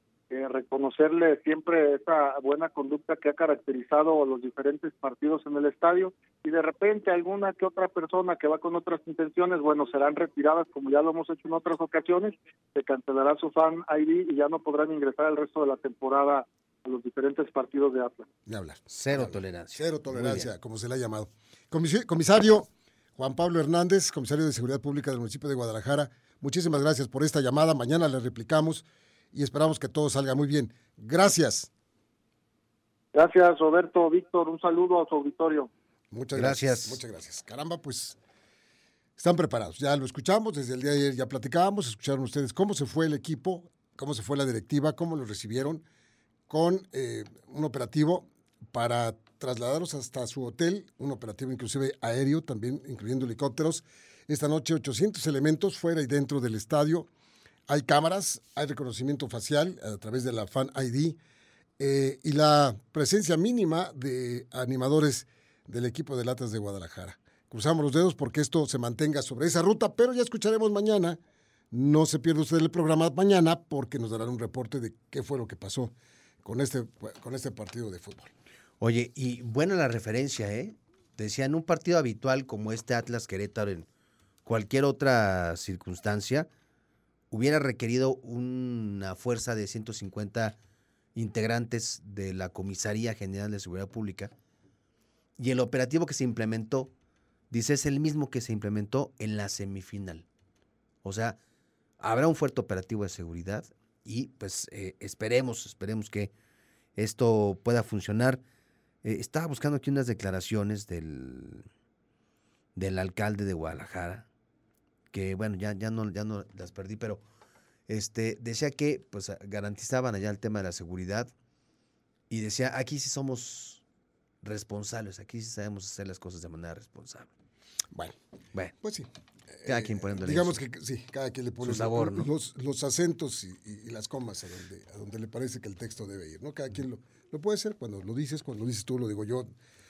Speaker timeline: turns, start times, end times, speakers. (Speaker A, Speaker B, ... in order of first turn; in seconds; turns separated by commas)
Speaker A: 0.3-18.3, Speaker B: 18.5-31.7, Speaker C: 18.9-20.5, Speaker A: 33.1-35.7, Speaker B: 36.1-38.2, Speaker C: 36.3-37.0, Speaker B: 39.2-45.8, Speaker B: 46.5-57.1, Speaker B: 57.7-61.2, Speaker B: 61.8-71.2, Speaker B: 71.7-78.3, Speaker C: 78.8-83.9, Speaker C: 84.4-86.5, Speaker C: 87.3-90.6, Speaker C: 91.1-94.3, Speaker C: 95.4-96.9, Speaker C: 97.5-100.2, Speaker C: 101.0-101.4, Speaker C: 102.0-106.3, Speaker C: 107.0-108.4, Speaker C: 109.0-111.7, Speaker C: 112.8-114.3, Speaker C: 115.1-117.2, Speaker C: 117.9-121.3, Speaker C: 122.3-123.8, Speaker C: 124.4-127.3, Speaker B: 128.8-139.5, Speaker C: 129.7-130.6, Speaker C: 131.6-132.3